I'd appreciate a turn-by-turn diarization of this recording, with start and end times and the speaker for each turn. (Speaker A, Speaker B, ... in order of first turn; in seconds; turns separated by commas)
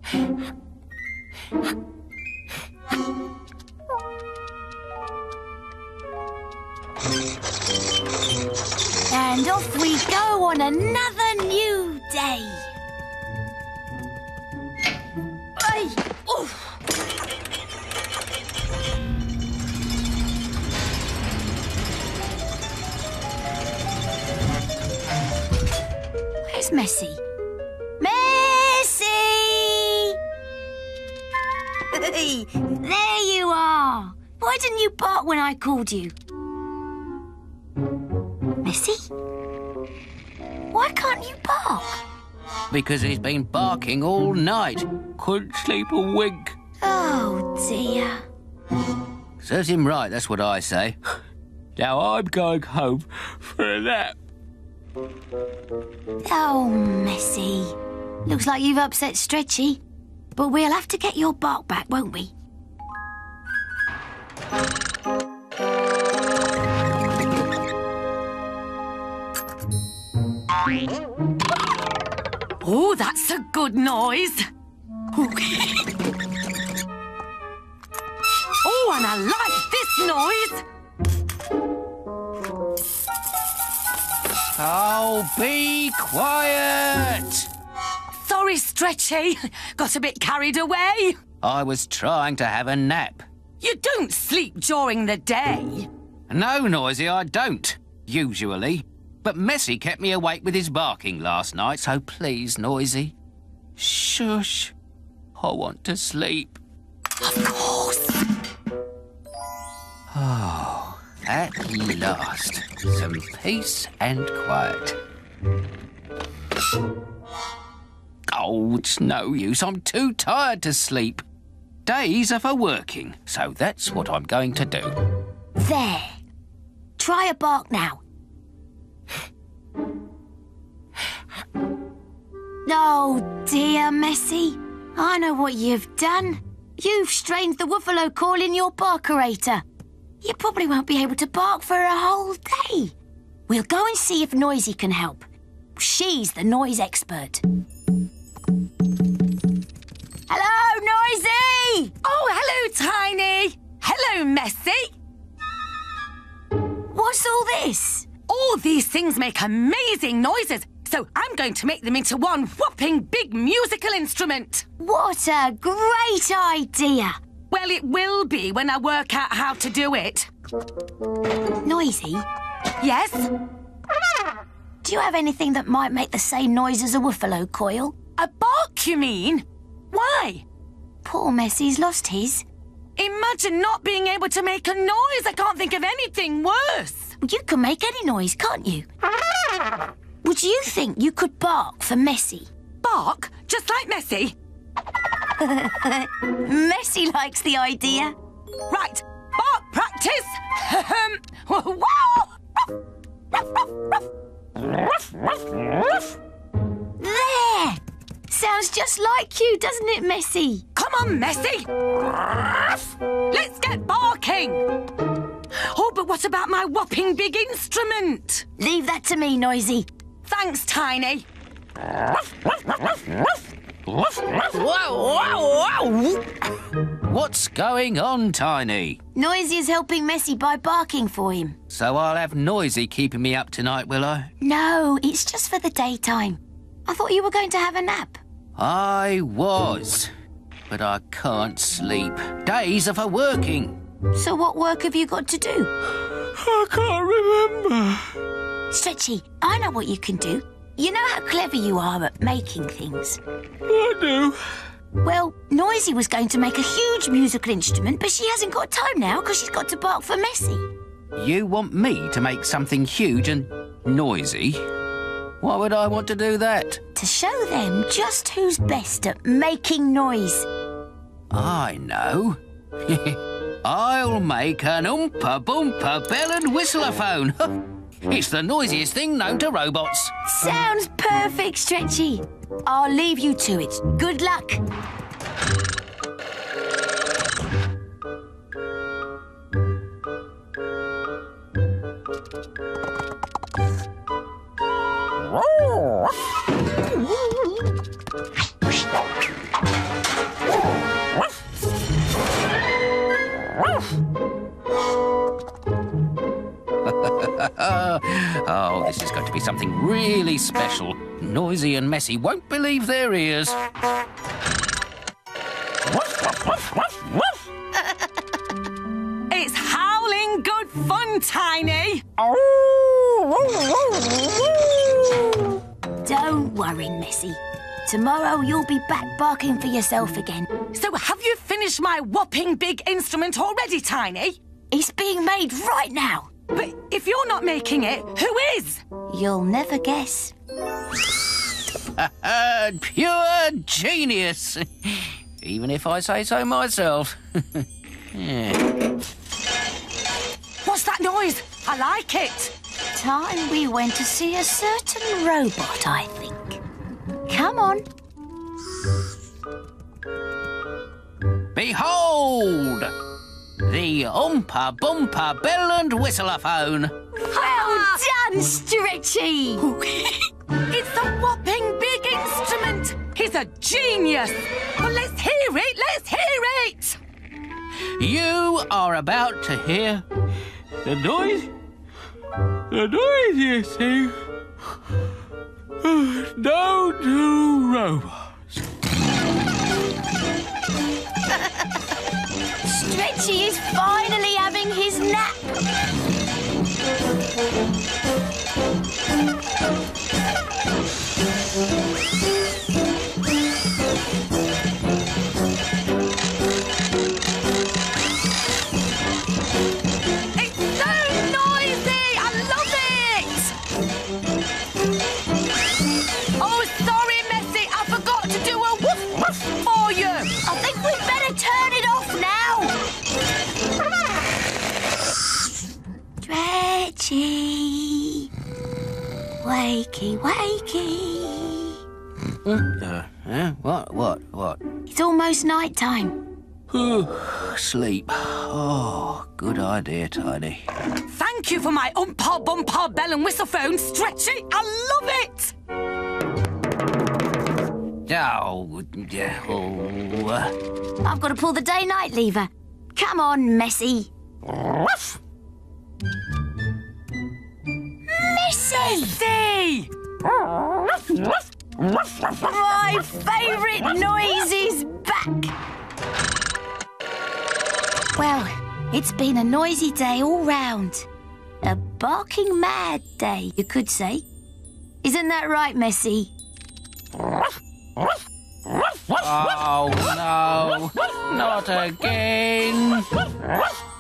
Speaker A: 9.1-12.7, Speaker A: 15.6-16.6, Speaker A: 26.5-27.2, Speaker A: 28.0-30.2, Speaker A: 31.9-36.1, Speaker A: 38.6-39.1, Speaker A: 40.7-42.0, Speaker B: 42.7-46.5, Speaker A: 46.8-48.2, Speaker B: 49.4-51.0, Speaker B: 51.8-54.2, Speaker A: 56.2-59.8, Speaker A: 60.4-62.3, Speaker C: 72.6-74.4, Speaker C: 75.1-75.9, Speaker C: 78.6-80.6, Speaker B: 84.6-87.5, Speaker C: 88.2-91.2, Speaker B: 91.4-93.2, Speaker C: 93.6-95.9, Speaker B: 96.3-103.2, Speaker B: 103.8-104.7, Speaker B: 105.4-106.6, Speaker C: 107.2-108.2, Speaker B: 110.1-115.0, Speaker B: 118.3-121.2, Speaker B: 121.9-124.9, Speaker A: 125.6-126.2, Speaker A: 127.0-128.0, Speaker A: 132.7-139.6, Speaker A: 140.2-142.9, Speaker A: 143.5-147.4, Speaker A: 150.3-151.9, Speaker C: 152.0-154.9, Speaker A: 156.9-158.1, Speaker C: 158.3-164.6, Speaker A: 164.8-167.1, Speaker C: 167.5-170.3, Speaker A: 171.6-172.2, Speaker C: 172.8-173.3, Speaker A: 174.8-178.0, Speaker C: 178.2-180.4, Speaker A: 181.0-182.4, Speaker C: 183.0-187.1, Speaker A: 187.2-188.9, Speaker A: 190.2-192.5, Speaker C: 192.8-194.3, Speaker A: 195.4-198.2, Speaker C: 198.7-202.3, Speaker C: 203.3-204.0, Speaker A: 207.0-210.6, Speaker C: 210.8-211.7, Speaker C: 213.3-214.6, Speaker C: 215.6-218.4, Speaker A: 218.6-219.9, Speaker C: 220.3-221.2, Speaker B: 224.1-229.0, Speaker A: 229.2-231.6, Speaker B: 231.7-234.3, Speaker A: 234.4-238.2, Speaker B: 238.6-240.1, Speaker B: 240.7-243.8, Speaker A: 244.1-245.7, Speaker B: 246.4-248.0, Speaker A: 248.7-253.2, Speaker B: 253.7-254.4, Speaker A: 255.0-260.7, Speaker B: 261.2-264.6, Speaker B: 265.4-266.8, Speaker A: 266.9-270.5, Speaker B: 271.3-277.5, Speaker B: 278.1-280.1, Speaker A: 280.3-284.6, Speaker B: 306.8-313.6, Speaker C: 319.3-322.0, Speaker A: 326.0-330.5, Speaker C: 330.7-334.4, Speaker A: 334.7-336.3, Speaker C: 336.5-338.8, Speaker A: 339.1-340.3, Speaker B: 342.0-348.7, Speaker C: 350.6-352.5, Speaker A: 352.9-356.6, Speaker A: 357.3-357.8, Speaker B: 361.5-362.9, Speaker B: 363.6-366.9, Speaker A: 367.2-369.7, Speaker C: 367.3-368.0, Speaker C: 369.6-377.0, Speaker B: 378.0-380.1, Speaker B: 380.8-381.5, Speaker B: 382.7-384.2, Speaker B: 385.8-388.3, Speaker A: 392.6-395.4, Speaker C: 410.4-413.5, Speaker C: 416.4-420.3, Speaker A: 420.4-422.8, Speaker A: 426.2-428.3, Speaker A: 429.4-431.8, Speaker B: 432.4-434.6, Speaker A: 434.9-436.2, Speaker B: 436.7-440.6, Speaker C: 441.1-445.5, Speaker B: 448.1-450.5, Speaker A: 451.0-454.1, Speaker A: 458.1-459.2, Speaker C: 458.9-459.9, Speaker A: 462.2-465.6, Speaker A: 468.2-471.1, Speaker A: 471.6-474.2, Speaker A: 475.0-476.3, Speaker B: 479.1-483.3